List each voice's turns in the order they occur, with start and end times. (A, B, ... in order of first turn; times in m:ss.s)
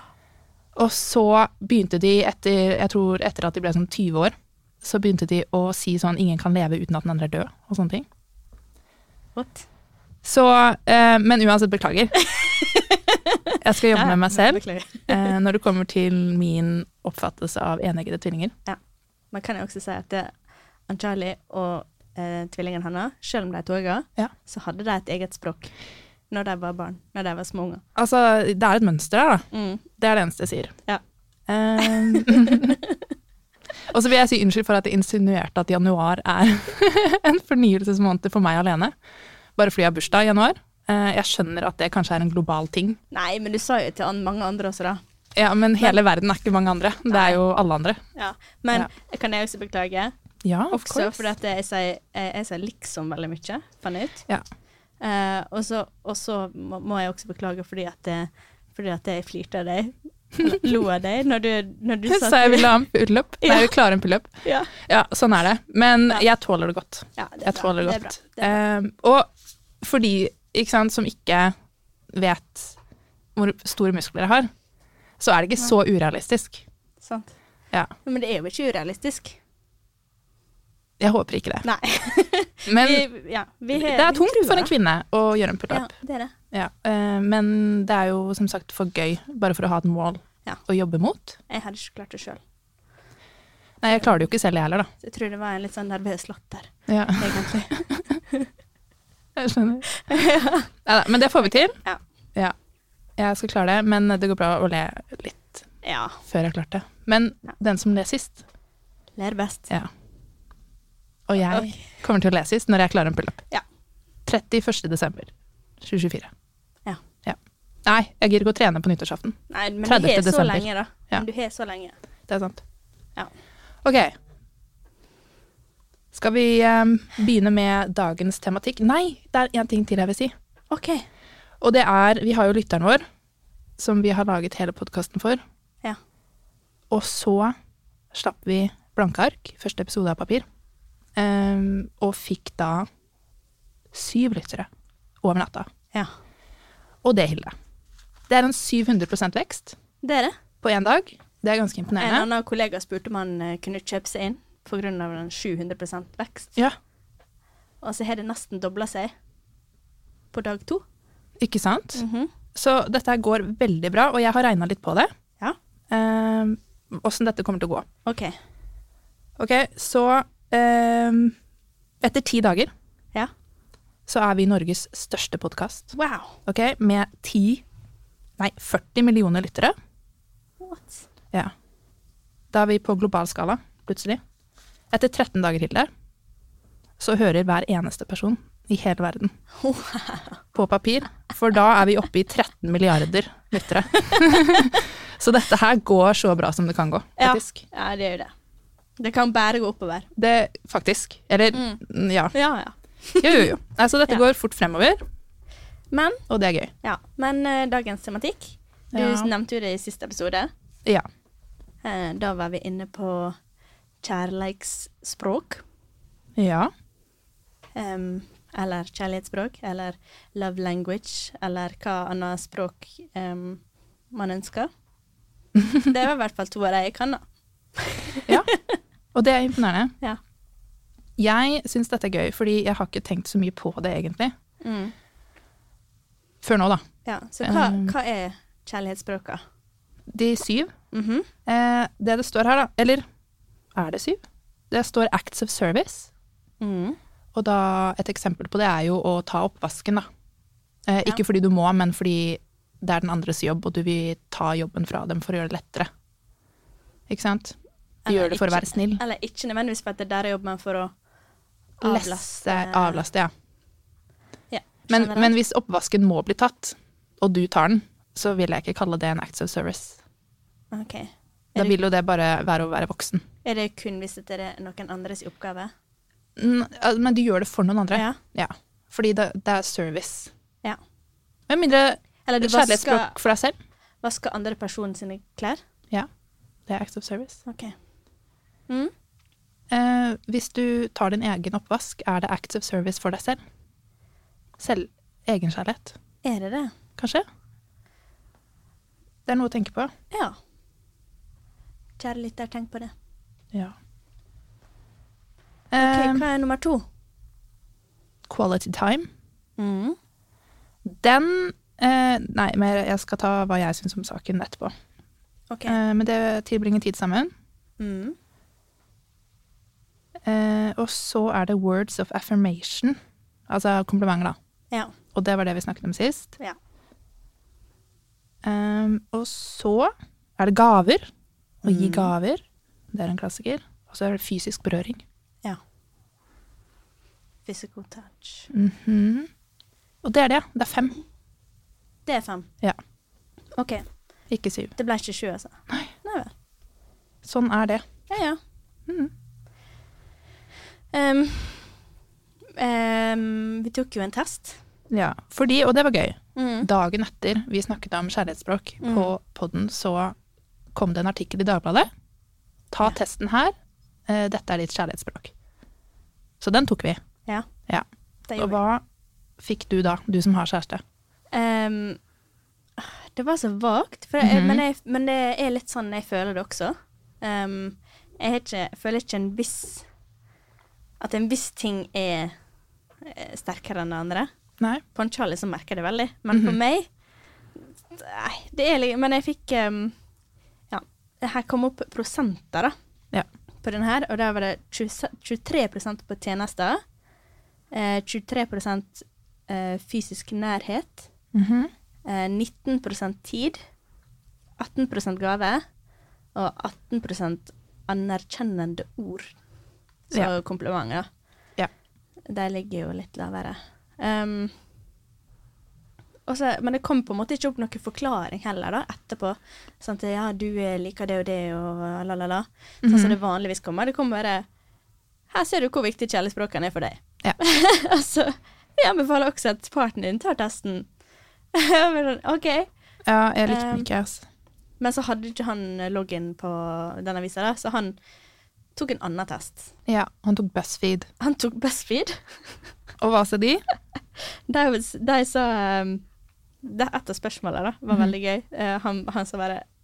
0:00.8-0:08.1 A
0:09.3-0:09.7 B
0:10.2-0:12.2 A
0:12.2-0:15.3 B
0:13.6-0:18.5 A
0:19.3-0:20.3 B
0:20.9-0:25.7 B
0:26.3-0:27.8 B
0:28.0-0:30.8 A
0:29.5-0:29.8 B
0:31.5-0:32.8 A
0:31.8-0:33.0 B
0:33.9-0:38.9 A
0:39.6-0:43.0 A
0:43.1-0:45.0 B
0:45.3-0:48.0 A
0:47.1-0:47.4 B
0:48.2-0:50.1 B
0:50.4-0:51.3 A
0:50.7-0:54.2 B
0:55.0-1:02.7 B
1:02.1-1:09.3 A
1:03.4-1:03.7 B
1:04.4-1:04.7 B
1:07.2-1:08.6 B
1:09.8-1:11.5 A
1:12.1-1:12.8 A
1:13.3-1:14.5 A
1:15.2-1:16.6 A
1:17.0-1:17.3 B
1:18.0-1:19.4 B
1:21.0-1:21.7 A
1:21.6-1:24.7 B
1:22.7-1:23.1 A
1:23.7-1:25.9 A
1:25.7-1:26.3 B
1:26.5-1:31.4 A
1:31.5-1:32.4 B
1:33.8-1:34.9 A
1:35.0-1:38.5 B
1:36.9-1:37.8 A
1:39.4-1:39.9 A
1:39.9-1:40.7 B
1:40.8-1:41.8 A
1:41.5-1:42.0 B
1:43.2-1:45.7 A
1:45.8-1:46.2 B
1:46.2-1:48.4 A
1:49.2-1:49.7 B
1:51.3-1:53.4 A
1:51.5-1:51.8 B
1:54.2-1:56.3 A
1:57.2-2:01.2 A
1:59.5-2:01.9 B
2:02.3-2:02.6 A
2:03.8-2:04.1 A
2:06.1-2:10.3 A
2:10.7-2:11.1 B
2:11.6-2:13.0 A
2:13.8-2:15.4 A
2:16.9-2:17.6 A
2:18.1-2:20.4 A
2:21.2-2:22.9 A
2:23.9-2:24.7 A
2:25.2-2:25.7 A
2:27.0-2:27.5 A
2:28.3-2:29.8 A
2:30.0-2:30.4 B
2:30.6-2:32.3 A
2:32.0-2:36.6 B
2:37.8-2:39.1 B
2:40.3-2:40.8 B
2:41.4-2:45.1 A
2:41.9-2:42.3 B
2:45.9-2:47.9 A
2:48.1-2:48.4 B
2:49.4-2:51.4 A
2:52.0-2:52.7 A
2:54.1-2:55.9 A
2:55.9-2:56.4 B
2:56.4-2:57.6 A
2:58.4-2:59.8 A
3:00.6-3:01.1 B
3:02.5-3:04.2 A
3:04.9-3:05.9 A
3:07.0-3:09.3 A
3:09.6-3:10.4 B
3:10.6-3:17.6 A
3:14.0-3:14.7 B
3:17.2-3:18.3 B
3:19.0-3:20.1 B
3:20.2-3:22.3 A
3:21.5-3:21.8 B
3:22.3-3:23.5 B
3:23.2-3:25.0 A
3:25.9-3:26.2 B
3:26.3-3:26.7 A
3:26.8-3:30.5 B
3:28.9-3:29.3 A
3:31.8-3:33.4 B
3:34.0-3:35.6 B
3:36.4-3:36.7 A
3:37.8-3:43.6 B
3:44.1-3:44.7 B
3:45.6-3:45.8 A
3:45.8-3:47.2 B
3:47.8-3:48.8 B
3:49.1-3:49.9 A
3:51.2-3:54.3 A
3:54.6-3:54.9 B
3:56.4-3:56.8 A
3:57.0-3:59.4 B
3:57.4-3:57.9 A
4:00.1-4:00.7 A
4:00.9-4:01.3 B
4:01.4-4:03.0 A
4:03.8-4:04.2 A
4:04.7-4:06.1 A
4:06.6-4:07.0 B
4:07.3-4:10.1 A
4:10.9-4:15.9 A
4:17.1-4:17.6 A
4:18.1-4:20.9 B
4:18.1-4:19.0 A
4:21.8-4:23.3 A
4:21.8-4:23.0 B
4:24.5-4:25.3 B
4:24.9-4:30.0 A
4:30.7-4:31.8 B
4:31.6-4:33.2 A
4:33.4-4:35.7 B
4:36.4-4:40.3 A
4:37.9-4:38.2 B
4:41.5-4:43.6 A
4:42.2-4:43.2 B
4:44.0-4:45.6 B
4:46.7-4:47.4 A
4:47.4-4:47.8 B
4:49.7-4:53.4 A
4:54.6-4:56.0 A
4:56.2-4:56.7 B
4:57.0-4:57.2 A
4:59.2-4:59.9 A
5:00.1-5:00.4 B
5:02.0-5:02.9 B
5:05.7-5:06.2 A
5:05.8-5:06.8 B
5:08.3-5:09.1 A
5:09.6-5:10.0 B
5:10.8-5:14.7 A
5:15.5-5:15.8 B
5:15.7-5:17.3 A
5:17.8-5:18.2 B
5:20.2-5:23.0 A
5:23.5-5:24.4 A
5:25.1-5:26.4 A
5:28.4-5:31.1 A
5:31.6-5:32.1 B
5:31.6-5:35.0 A
5:37.4-5:38.5 B
5:38.5-5:39.3 A
5:40.0-5:41.0 A
5:42.1-5:42.5 B
5:43.6-5:43.9 B
5:44.3-5:44.7 A
5:44.8-5:46.3 B
5:47.2-5:47.8 A
5:48.1-5:48.4 B
5:48.9-5:49.1 A
5:50.9-5:51.8 B
5:52.6-5:54.6 B
5:54.9-6:00.2 A
5:56.4-5:56.7 B
5:58.8-5:59.1 B
6:00.7-6:01.9 A
6:02.7-6:03.5 A
6:04.1-6:05.3 A
6:06.4-6:07.0 A
6:08.3-6:08.6 B
6:08.4-6:08.8 A
6:09.4-6:10.8 A
6:11.3-6:12.0 B
6:12.8-6:19.9 B
6:14.2-6:14.6 A
6:21.0-6:22.3 B
6:23.0-6:24.3 B
6:24.9-6:26.9 B
6:26.3-6:26.6 A
6:27.6-6:30.0 B
6:30.7-6:32.8 B
6:33.6-6:36.8 B
6:37.7-6:41.1 B
6:41.3-6:41.7 A
6:42.1-6:43.6 B
6:44.6-6:45.6 B
6:46.3-6:49.3 B
6:50.1-6:51.1 B
6:52.3-6:54.6 B
6:56.3-7:04.4 B
7:02.8-7:03.2 A
7:05.3-7:10.9 B
7:11.5-7:12.7 B
7:13.1-7:14.2 A
7:13.5-7:13.9 B
7:14.8-7:18.0 B
7:18.8-7:19.7 B
7:19.8-7:21.1 A
7:21.2-7:22.3 B
7:23.0-7:23.6 A
7:24.5-7:26.0 B
7:26.6-7:29.6 B